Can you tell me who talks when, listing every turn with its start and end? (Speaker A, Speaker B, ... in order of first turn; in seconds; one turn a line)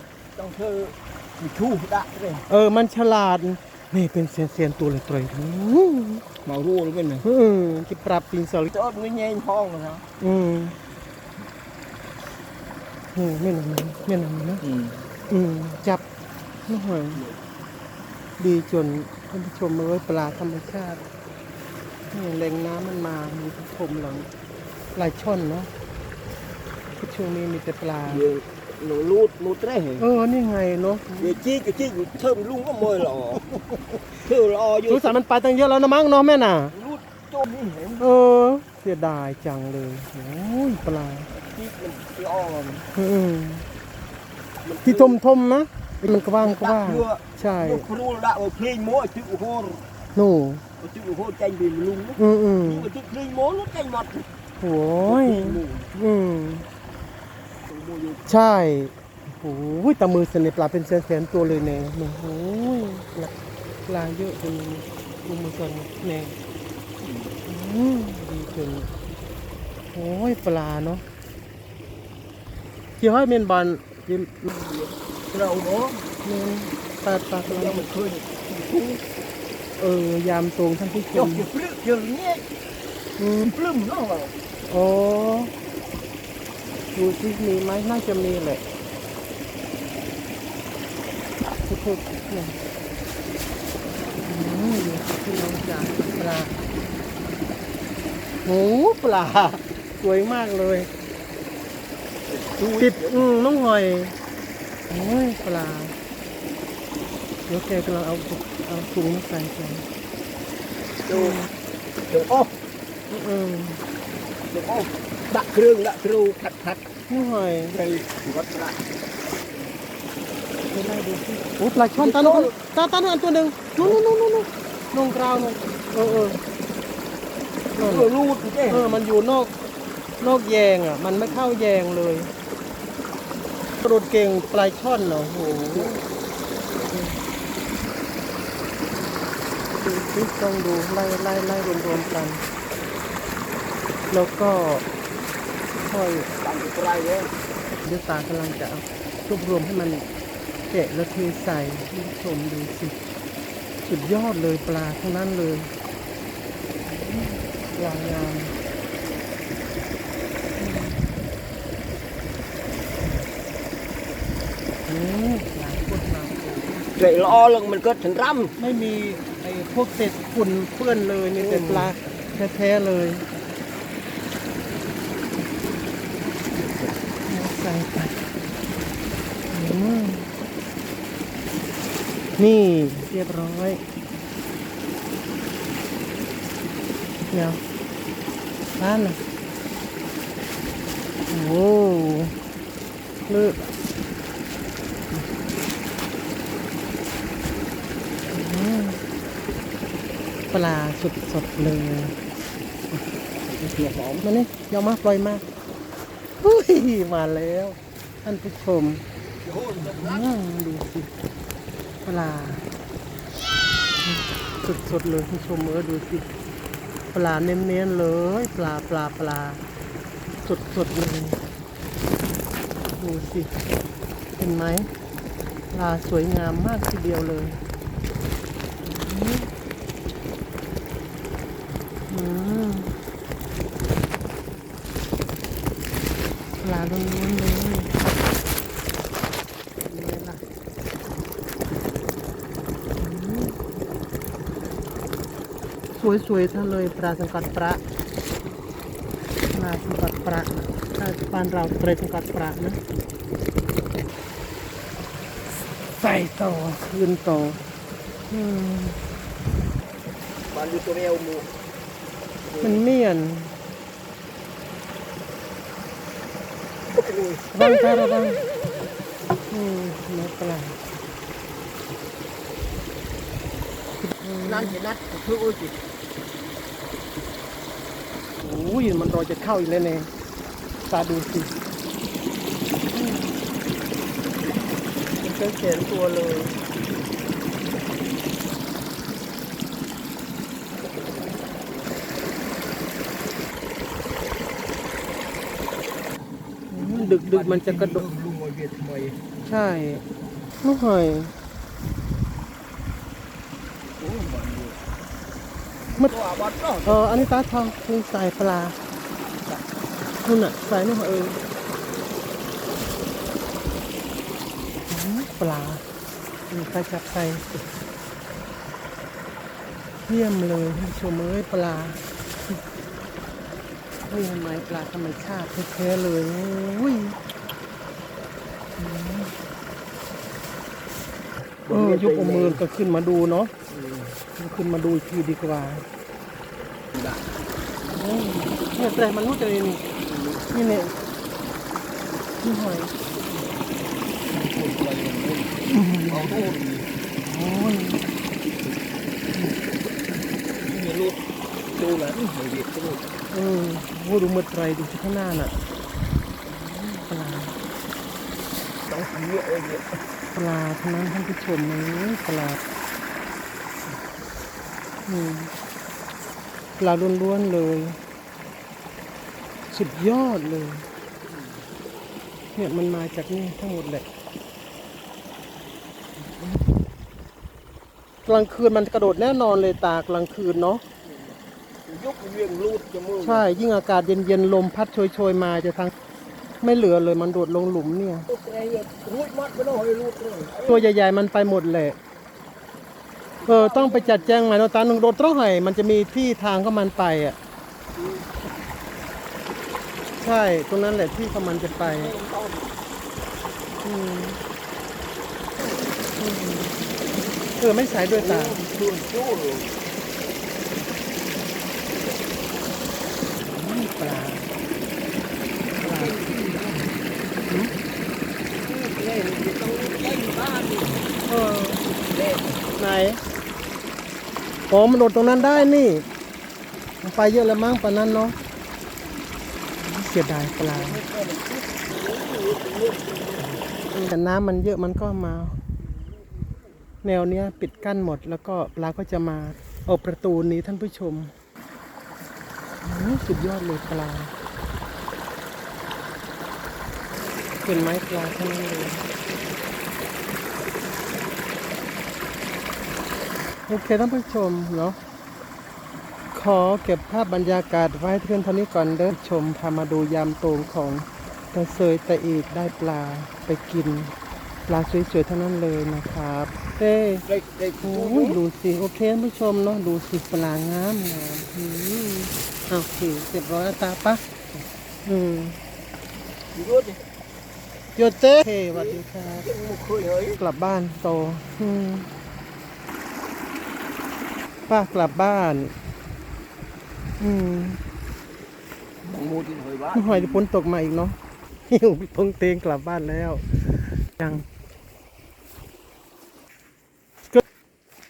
Speaker A: 0.3-2.4
Speaker B: 2.5-6.2
Speaker A: 6.4-7.2
Speaker B: 7.2-8.7
Speaker A: 8.7-10.0
Speaker B: 10.2-10.8
Speaker B: 13.1-14.6
Speaker A: 14.6-15.0
Speaker B: 15.3-16.0
Speaker B: 16.7-17.2
Speaker B: 18.4-21.0
Speaker B: 22.1-24.3
Speaker B: 24.9-25.7
Speaker B: 26.9-28.2
Speaker A: 28.1-30.1
Speaker B: 30.0-31.4
Speaker A: 31.2-33.5
Speaker A: 34.2-35.1
Speaker B: 34.9-36.7
Speaker A: 36.7-38.0
Speaker B: 38.0-41.3
Speaker A: 41.5-42.9
Speaker B: 42.9-43.6
Speaker A: 44.6-45.2
Speaker B: 44.8-47.9
Speaker A: 46.3-49.8
Speaker B: 50.1-50.6
Speaker A: 50.8-54.2
Speaker B: 52.2-52.9
Speaker B: 54.6-56.7
Speaker A: 55.0-55.9
Speaker A: 57.7-58.3
Speaker B: 58.3-63.3
Speaker B: 63.9-66.3
Speaker A: 67.0-67.3
Speaker B: 67.4-68.9
Speaker B: 69.9-71.0
Speaker B: 73.0-74.5
Speaker A: 74.5-76.0
Speaker B: 76.2-77.8
Speaker A: 77.5-79.0
Speaker B: 79.8-81.5
Speaker A: 81.1-82.4
Speaker B: 83.2-83.5
Speaker A: 83.4-84.3
Speaker B: 84.7-85.5
Speaker B: 86.9-88.6
Speaker B: 91.7-92.5
Speaker B: 94.2-96.5
Speaker B: 98.4-100.9
Speaker A: 102.3-103.2
Speaker B: 102.8-104.1
Speaker B: 104.9-105.9
Speaker B: 107.5-109.8
Speaker A: 111.1-111.4
Speaker B: 111.1-111.5
Speaker A: 112.1-112.6
Speaker B: 113.1-113.8
Speaker A: 114.5-116.8
Speaker B: 117.1-117.8
Speaker A: 117.7-118.8
Speaker B: 120.7-126.4
Speaker A: 121.9-122.5
Speaker B: 127.8-128.1
Speaker A: 127.8-129.0
Speaker B: 128.7-129.5
Speaker B: 130.2-132.3
Speaker B: 133.8-136.0
Speaker A: 135.5-136.0
Speaker B: 139.8-142.4
Speaker B: 144.1-144.8
Speaker B: 145.8-146.3
Speaker A: 146.3-147.3
Speaker B: 147.8-150.1
Speaker B: 150.7-153.0
Speaker B: 153.8-155.7
Speaker B: 156.8-158.5
Speaker B: 160.6-161.1
Speaker B: 164.8-166.9
Speaker A: 166.9-168.6
Speaker B: 168.6-173.2
Speaker A: 171.3-171.9
Speaker A: 176.6-176.9
Speaker B: 177.2-178.2
Speaker B: 179.5-180.3
Speaker B: 182.3-183.8
Speaker B: 187.3-187.6
Speaker B: 188.8-189.2
Speaker B: 191.3-192.3
Speaker B: 193.2-193.7
Speaker B: 198.3-199.0
Speaker B: 200.5-202.1
Speaker A: 203.4-204.2
Speaker B: 204.2-205.4
Speaker B: 206.4-209.0
Speaker A: 209.4-210.3
Speaker B: 209.8-211.1
Speaker B: 212.0-212.6
Speaker B: 214.0-216.3
Speaker B: 217.1-219.6
Speaker B: 220.4-221.4
Speaker B: 223.0-223.5
Speaker B: 224.4-224.9
Speaker B: 225.7-227.6
Speaker B: 228.8-229.5
Speaker B: 232.1-232.9
Speaker B: 236.6-237.9
Speaker B: 239.9-240.4
Speaker B: 243.0-243.6
Speaker B: 245.9-247.8
Speaker B: 249.5-252.8
Speaker B: 256.0-257.6
Speaker B: 258.3-259.0
Speaker A: 260.5-261.5
Speaker A: 262.5-262.8
Speaker B: 262.6-263.5
Speaker A: 266.9-267.4
Speaker B: 267.5-268.4
Speaker B: 269.5-270.8
Speaker B: 274.0-274.8
Speaker A: 274.4-275.7
Speaker B: 278.4-280.1
Speaker B: 280.9-281.5
Speaker B: 282.9-283.3
Speaker B: 285.2-286.6
Speaker B: 296.7-298.0
Speaker A: 296.7-299.2
Speaker B: 299.4-300.0
Speaker B: 300.6-301.3
Speaker A: 304.0-304.8
Speaker A: 305.9-307.3
Speaker B: 306.8-308.8
Speaker B: 310.2-311.4
Speaker B: 314.9-315.8
Speaker B: 316.5-317.4
Speaker B: 320.1-322.0
Speaker B: 324.1-327.2
Speaker B: 328.8-329.3
Speaker A: 331.6-332.6
Speaker B: 331.7-333.5
Speaker A: 333.7-334.2
Speaker B: 334.4-335.9
Speaker A: 336.9-337.2
Speaker B: 337.9-339.8
Speaker A: 340.0-340.5
Speaker B: 340.5-340.9
Speaker B: 342.4-342.9
Speaker A: 344.3-346.9
Speaker B: 345.7-346.3
Speaker B: 347.2-348.0
Speaker A: 350.7-351.2
Speaker A: 351.8-353.0
Speaker B: 353.3-355.5
Speaker B: 356.5-357.6
Speaker A: 358.9-359.9
Speaker B: 360.3-362.6
Speaker B: 365.1-365.5
Speaker B: 366.8-368.0
Speaker B: 369.7-370.9
Speaker A: 371.3-371.6
Speaker B: 372.5-374.0
Speaker B: 378.2-380.8
Speaker A: 381.1-381.3
Speaker A: 381.9-383.5
Speaker B: 383.2-385.9
Speaker B: 386.6-388.2
Speaker A: 388.3-390.9
Speaker B: 390.7-392.0
Speaker A: 393.4-394.4
Speaker B: 393.5-397.4
Speaker A: 398.0-398.4
Speaker B: 400.2-402.1
Speaker A: 401.8-402.8
Speaker B: 403.8-404.4
Speaker B: 406.2-406.8
Speaker B: 407.6-408.6
Speaker A: 408.0-409.8
Speaker B: 413.4-414.5
Speaker B: 415.8-416.1
Speaker A: 415.8-416.9
Speaker B: 417.4-417.7
Speaker A: 418.6-421.1
Speaker B: 421.2-421.8
Speaker A: 422.0-422.6
Speaker B: 422.8-423.2
Speaker B: 424.7-426.0
Speaker A: 425.2-425.7
Speaker B: 427.0-428.4
Speaker B: 429.8-431.0
Speaker A: 430.6-433.4
Speaker B: 433.9-435.6
Speaker B: 437.0-441.3
Speaker B: 442.8-444.3
Speaker B: 447.6-449.0
Speaker B: 453.7-455.0
Speaker B: 456.3-464.1
Speaker B: 464.7-467.2
Speaker A: 467.3-468.4
Speaker B: 467.8-474.2
Speaker B: 475.0-475.6
Speaker A: 476.5-477.0
Speaker B: 477.9-479.5
Speaker A: 478.7-480.4
Speaker B: 480.4-482.1
Speaker B: 484.7-485.7
Speaker B: 487.2-487.8
Speaker A: 489.0-490.4
Speaker B: 489.9-491.1
Speaker B: 491.7-494.4